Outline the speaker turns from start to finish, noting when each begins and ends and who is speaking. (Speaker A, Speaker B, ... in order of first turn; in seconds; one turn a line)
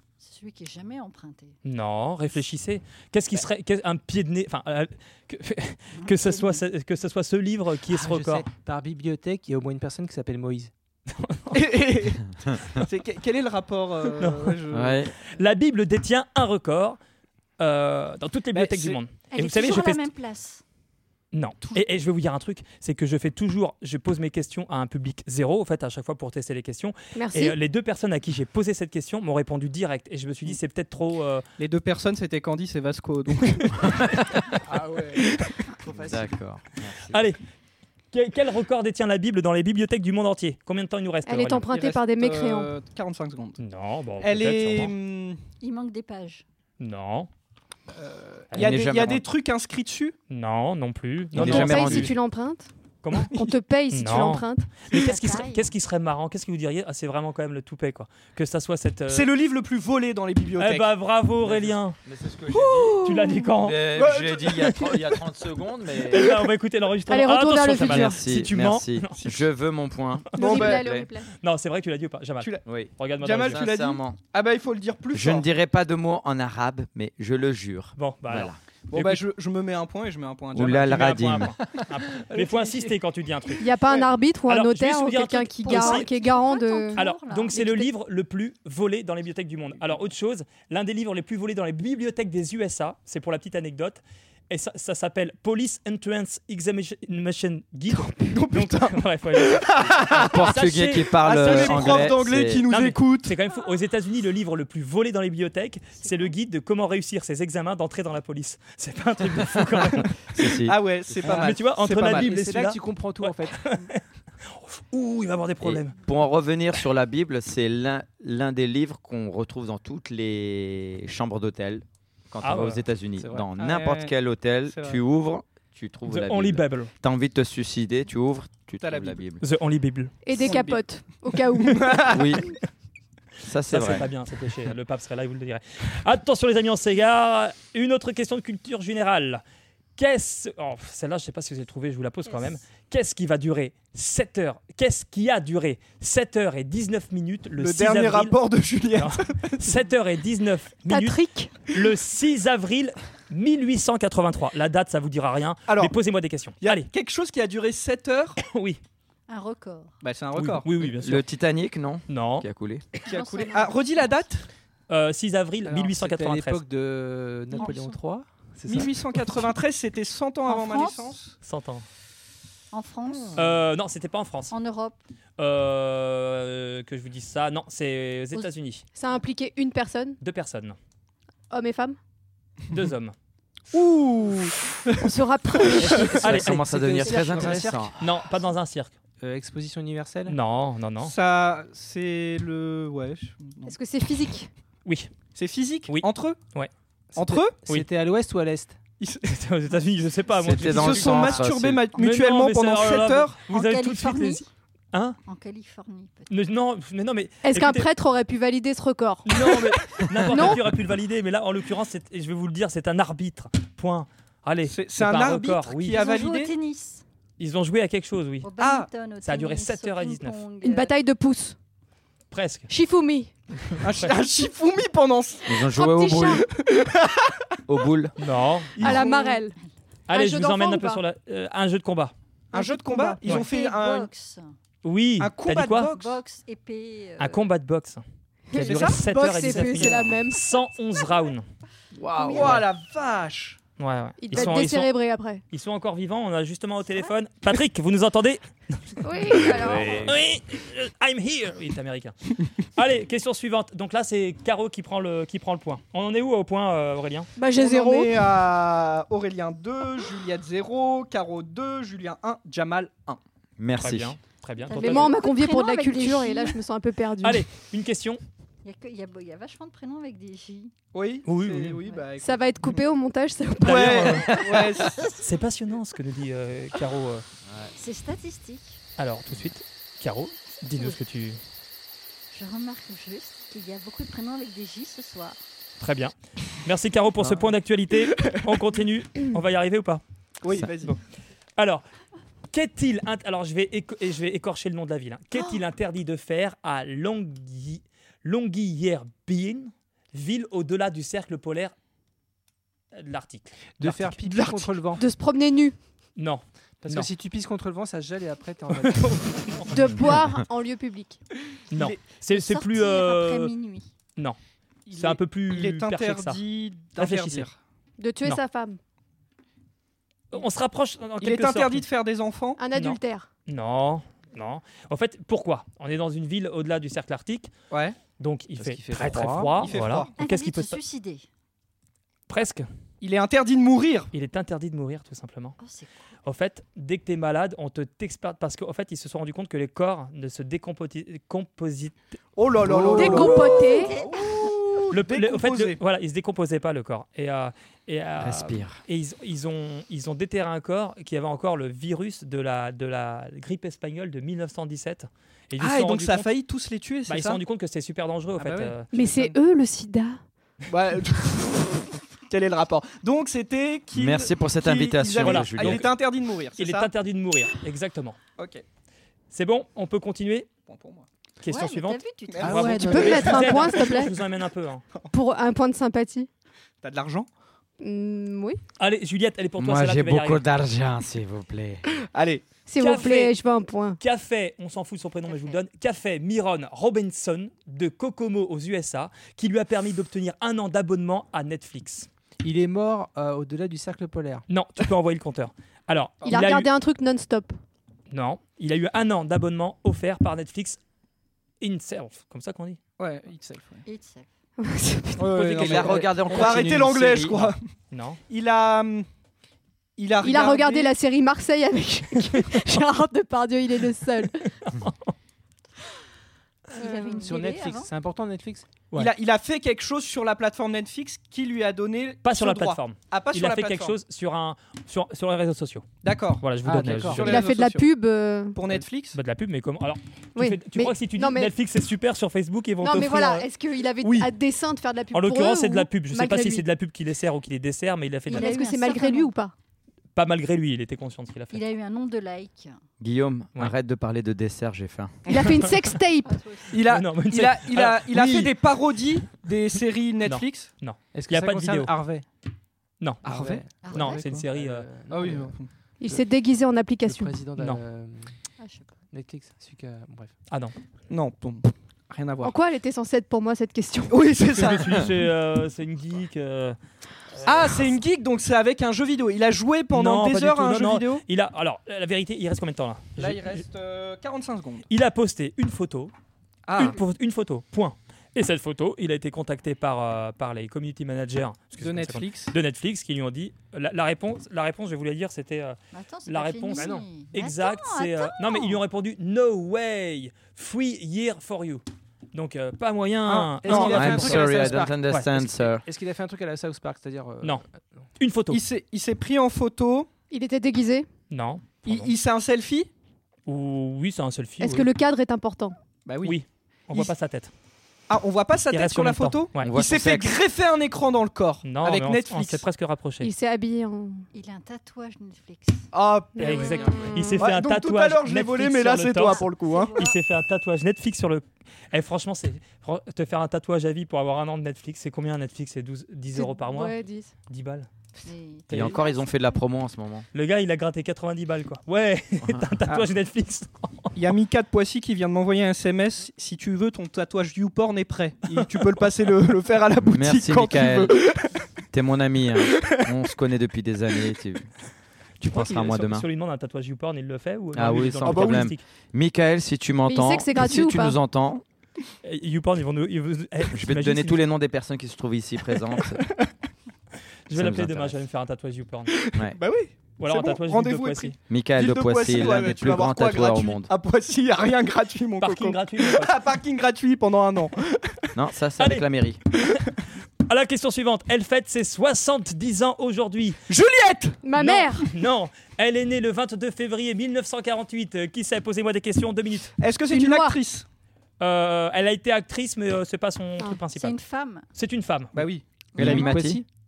Speaker A: 0.2-1.6
Speaker B: 1.6-8.5
Speaker A: 6.0-6.6
Speaker C: 7.9-10.7
Speaker B: 11.1-11.6
Speaker D: 11.5-15.1
Speaker B: 14.2-14.6
Speaker E: 14.7-15.1
Speaker B: 15.2-17.0
Speaker B: 17.6-20.0
Speaker D: 18.5-19.0
Speaker A: 19.3-20.6
Speaker B: 21.3-31.4
Speaker F: 27.1-27.6
Speaker D: 31.6-34.4
Speaker C: 34.7-35.2
Speaker D: 35.0-35.4
Speaker C: 35.9-36.3
Speaker E: 35.9-37.2
Speaker B: 37.1-37.4
Speaker B: 38.1-41.7
Speaker F: 41.2-42.7
Speaker D: 41.7-43.6
Speaker B: 43.6-44.9
Speaker D: 44.2-45.4
Speaker A: 45.6-46.4
Speaker B: 46.8-47.3
Speaker D: 48.0-50.2
Speaker E: 48.5-49.2
Speaker B: 50.3-52.1
Speaker E: 51.3-52.1
Speaker F: 51.4-52.7
Speaker B: 53.0-53.4
Speaker F: 53.3-54.7
Speaker B: 53.9-59.3
Speaker A: 54.9-55.7
Speaker D: 59.1-61.0
Speaker B: 60.6-62.0
Speaker E: 61.4-66.3
Speaker F: 62.5-63.5
Speaker B: 63.0-63.9
Speaker D: 63.9-65.1
Speaker B: 66.1-69.4
Speaker F: 67.1-68.2
Speaker E: 67.8-71.1
Speaker B: 70.3-70.7
Speaker F: 70.3-71.3
Speaker D: 70.4-70.8
Speaker B: 71.4-73.7
Speaker E: 72.6-74.2
Speaker D: 73.2-75.5
Speaker E: 75.1-78.5
Speaker B: 78.0-79.2
Speaker D: 78.9-83.0
Speaker E: 80.5-81.5
Speaker B: 80.8-83.7
Speaker F: 83.6-87.0
Speaker B: 84.5-86.1
Speaker A: 85.6-87.9
Speaker B: 86.9-110.1
Speaker D: 98.3-100.5
Speaker E: 100.1-102.7
Speaker D: 101.2-103.3
Speaker A: 106.0-106.3
Speaker E: 109.7-110.8
Speaker D: 110.6-112.5
Speaker C: 111.2-113.7
Speaker B: 111.3-115.9
Speaker E: 115.6-129.4
Speaker B: 122.4-122.8
Speaker C: 123.2-123.5
Speaker D: 123.6-124.1
Speaker D: 124.7-125.0
Speaker B: 126.0-126.9
Speaker D: 128.8-129.2
Speaker B: 129.4-130.5
Speaker F: 130.2-132.2
Speaker D: 130.3-130.8
Speaker D: 131.6-132.3
Speaker E: 132.1-132.5
Speaker E: 133.4-134.1
Speaker B: 133.7-139.4
Speaker B: 140.0-148.4
Speaker D: 147.6-149.8
Speaker B: 148.9-151.2
Speaker F: 150.9-151.5
Speaker B: 151.7-156.9
Speaker D: 155.7-156.0
Speaker D: 156.6-158.4
Speaker B: 158.4-158.8
Speaker A: 159.3-160.0
Speaker D: 160.0-160.7
Speaker B: 160.3-161.2
Speaker E: 161.0-162.8
Speaker B: 162.1-162.5
Speaker A: 163.0-164.2
Speaker D: 163.1-164.4
Speaker B: 164.9-166.6
Speaker C: 165.6-169.1
Speaker A: 167.5-168.0
Speaker D: 168.7-171.3
Speaker A: 170.4-171.2
Speaker B: 171.4-171.8
Speaker A: 172.7-173.5
Speaker B: 173.3-174.5
Speaker A: 174.5-175.0
Speaker B: 175.4-178.8
Speaker F: 178.9-180.2
Speaker B: 180.2-180.8
Speaker F: 181.5-182.0
Speaker B: 182.7-183.1
Speaker D: 183.7-185.1
Speaker F: 185.0-186.2
Speaker D: 185.7-186.0
Speaker E: 185.8-188.1
Speaker B: 186.1-186.8
Speaker C: 186.3-188.0
Speaker A: 187.0-187.6
Speaker B: 188.0-188.9
Speaker C: 189.2-190.4
Speaker B: 190.3-191.1
Speaker D: 191.0-193.7
Speaker F: 193.6-194.5
Speaker B: 194.8-195.1
Speaker D: 195.3-196.4
Speaker B: 195.9-196.7
Speaker C: 197.1-198.8
Speaker D: 197.2-197.6
Speaker D: 199.0-199.4
Speaker B: 199.2-205.2
Speaker E: 200.4-201.9
Speaker D: 200.5-203.4
Speaker A: 201.4-202.1
Speaker A: 203.5-204.5
Speaker A: 205.2-206.3
Speaker B: 206.3-207.9
Speaker F: 207.4-209.7
Speaker B: 209.2-216.0
Speaker F: 210.2-210.6
Speaker D: 214.7-216.5
Speaker A: 215.9-217.0
Speaker B: 217.4-218.5
Speaker A: 218.4-220.9
Speaker D: 218.6-218.9
Speaker B: 219.2-220.4
Speaker F: 220.6-221.6
Speaker B: 222.3-222.7
Speaker F: 222.7-223.3
Speaker B: 223.6-224.1
Speaker D: 223.8-225.7
Speaker E: 225.4-226.5
Speaker F: 225.7-226.5
Speaker D: 226.5-227.5
Speaker E: 227.7-228.1
Speaker B: 228.2-229.0
Speaker D: 228.8-229.4
Speaker F: 228.8-229.5
Speaker B: 230.1-232.1
Speaker F: 230.1-231.0
Speaker D: 232.5-234.1
Speaker F: 232.5-233.2
Speaker A: 233.3-234.6
Speaker B: 234.8-235.9
Speaker D: 235.2-236.2
Speaker A: 235.9-237.5
Speaker B: 237.2-241.4
Speaker F: 238.5-240.4
Speaker D: 238.5-240.0
Speaker D: 242.1-243.6
Speaker E: 242.3-242.6
Speaker B: 242.4-242.6
Speaker B: 243.8-244.9
Speaker F: 244.2-245.4
Speaker B: 245.5-252.1
Speaker F: 249.0-250.1
Speaker A: 249.4-249.9
Speaker E: 249.5-250.2
Speaker B: 252.6-257.3
Speaker F: 257.4-258.2
Speaker D: 257.5-263.2
Speaker E: 263.6-264.1
Speaker B: 263.8-265.1
Speaker A: 264.6-266.6
Speaker F: 264.7-267.5
Speaker B: 267.2-268.2
Speaker A: 268.6-270.7
Speaker D: 270.9-272.8
Speaker B: 271.2-271.8
Speaker F: 272.2-274.5
Speaker B: 273.6-274.6
Speaker D: 273.6-275.2
Speaker A: 274.6-275.2
Speaker B: 275.2-277.2
Speaker E: 277.4-277.7
Speaker A: 277.7-278.8
Speaker B: 279.0-281.4
Speaker A: 282.3-285.4
Speaker B: 285.8-290.0
Speaker D: 288.1-288.5
Speaker D: 290.4-291.0
Speaker B: 291.6-291.8
Speaker B: 292.5-301.7
Speaker B: 302.9-304.1
Speaker C: 303.8-305.0
Speaker D: 304.3-304.6
Speaker F: 305.0-305.7
Speaker B: 306.1-307.1
Speaker C: 306.8-309.2
Speaker B: 308.8-310.2
Speaker F: 309.7-311.2
Speaker B: 311.7-313.5
Speaker D: 311.7-312.0
Speaker A: 312.3-313.9
Speaker D: 314.9-317.6
Speaker B: 314.9-316.4
Speaker B: 317.0-317.5
Speaker F: 318.0-318.8
Speaker B: 320.3-321.8
Speaker D: 321.2-322.6
Speaker F: 322.6-323.3
Speaker B: 322.7-327.5
Speaker D: 327.7-328.0
Speaker B: 328.1-330.8
Speaker C: 328.6-329.7
Speaker D: 329.5-330.1
Speaker A: 330.2-331.3
Speaker B: 332.3-332.7
Speaker D: 333.0-334.1
Speaker B: 334.1-335.6
Speaker A: 335.6-336.1
Speaker B: 336.2-342.1
Speaker D: 342.4-345.8
Speaker F: 342.9-344.0
Speaker B: 343.0-343.3
Speaker A: 343.5-344.6
Speaker B: 344.9-356.3
Speaker E: 348.2-348.8
Speaker D: 355.6-357.4
Speaker B: 357.1-358.9
Speaker D: 358.3-359.3
Speaker F: 358.9-360.2
Speaker D: 360.7-366.9
Speaker E: 363.9-365.9
Speaker B: 365.2-365.9
Speaker B: 366.6-368.2
Speaker D: 368.4-368.6
Speaker B: 369.3-370.5
Speaker D: 370.6-371.1
Speaker B: 371.4-374.8
Speaker A: 371.4-373.5
Speaker D: 372.3-374.1
Speaker C: 372.4-373.2
Speaker F: 372.8-374.1
Speaker F: 375.1-376.3
Speaker D: 376.8-377.3
Speaker F: 377.8-378.6
Speaker B: 378.8-380.4
Speaker E: 379.6-381.8
Speaker D: 382.1-382.4
Speaker F: 382.6-384.0
Speaker B: 382.8-383.3
Speaker B: 384.0-392.1
Speaker A: 385.3-385.6
Speaker C: 392.4-394.4
Speaker B: 394.5-396.7
Speaker F: 396.2-397.5
Speaker B: 398.1-400.8
Speaker B: 401.6-402.8
Speaker D: 403.0-403.9
Speaker A: 403.8-404.3
Speaker F: 404.6-405.5
Speaker D: 405.2-407.7
Speaker E: 405.3-407.6
Speaker B: 407.9-408.2
Speaker D: 408.3-409.1
Speaker D: 410.0-410.9
Speaker F: 410.2-414.5
Speaker B: 414.6-415.1
Speaker A: 416.7-417.9
Speaker F: 416.7-417.3
Speaker C: 417.2-418.8
Speaker D: 418.9-424.0
Speaker B: 422.2-425.9
Speaker D: 426.0-426.5
Speaker B: 426.4-427.5
Speaker C: 426.6-427.2
Speaker D: 427.1-427.9
Speaker F: 427.2-428.6
Speaker D: 428.5-429.2
Speaker B: 428.7-433.5
Speaker F: 430.4-431.5
Speaker F: 432.8-436.7
Speaker B: 434.0-434.3
Speaker B: 435.1-438.6
Speaker F: 438.3-439.5
Speaker A: 438.3-439.3
Speaker B: 440.1-441.6
Speaker A: 441.5-442.8
Speaker E: 443.0-445.1
Speaker F: 445.3-446.4
Speaker B: 445.4-445.9
Speaker A: 446.2-446.7
Speaker D: 446.7-450.7
Speaker B: 446.8-448.5
Speaker B: 450.2-451.9
Speaker C: 451.1-452.2
Speaker B: 453.0-453.3
Speaker D: 453.2-454.4
Speaker C: 453.2-455.6
Speaker A: 453.8-454.2
Speaker B: 453.8-454.9
Speaker D: 455.1-455.7
Speaker F: 456.0-457.4
Speaker C: 457.0-458.3
Speaker B: 457.6-457.8
Speaker A: 458.6-458.9
Speaker C: 459.1-460.4
Speaker B: 460.5-460.7
Speaker D: 461.1-462.5
Speaker F: 462.4-464.3
Speaker D: 464.1-465.1
Speaker B: 464.5-466.8
Speaker B: 467.4-467.9
Speaker D: 467.4-471.2
Speaker B: 469.9-473.6
Speaker D: 473.2-474.9
Speaker B: 474.9-476.1
Speaker D: 476.6-477.0
Speaker B: 476.8-495.3
Speaker D: 481.8-482.5
Speaker A: 485.9-488.8
Speaker C: 486.7-487.1
Speaker D: 493.2-494.9
Speaker C: 493.6-498.0
Speaker E: 493.7-495.8
Speaker B: 498.2-498.6
Speaker D: 498.5-500.1
Speaker F: 500.3-501.1
Speaker B: 501.3-502.1
Speaker D: 501.8-502.9
Speaker B: 503.5-504.9
Speaker F: 504.6-505.8
Speaker D: 506.1-506.4
Speaker B: 506.2-507.5
Speaker D: 508.1-512.6
Speaker B: 508.7-509.8
Speaker E: 509.6-510.3
Speaker B: 511.6-513.3
Speaker F: 513.2-514.2
Speaker A: 514.3-515.9
Speaker D: 515.9-520.0
Speaker F: 516.4-517.4
Speaker B: 516.4-527.9
Speaker A: 516.9-517.1
Speaker A: 519.3-520.2
Speaker F: 526.3-527.3
Speaker A: 528.2-529.5
Speaker B: 528.7-529.0
Speaker E: 528.7-530.3
Speaker B: 530.3-534.1
Speaker D: 534.1-541.5
Speaker E: 540.0-541.2
Speaker E: 541.9-544.7
Speaker E: 545.4-546.2
Speaker B: 545.4-548.8
Speaker E: 547.7-551.6
Speaker D: 548.2-548.7
Speaker F: 550.0-551.2
Speaker B: 552.2-554.4
Speaker E: 553.7-556.2
Speaker B: 557.5-559.1
Speaker E: 557.5-558.2
Speaker D: 559.1-568.2
Speaker B: 560.2-561.4
Speaker E: 561.5-563.9
Speaker B: 565.4-566.4
Speaker E: 568.3-569.4
Speaker B: 568.8-569.0
Speaker B: 570.5-573.6
Speaker D: 573.7-574.5
Speaker F: 574.4-575.1
Speaker B: 574.6-579.7
Speaker D: 579.8-580.9
Speaker F: 580.1-580.6
Speaker B: 581.4-584.1
Speaker A: 583.9-584.7
Speaker B: 584.7-585.5
Speaker D: 585.3-585.6
Speaker C: 585.9-586.6
Speaker E: 586.0-586.6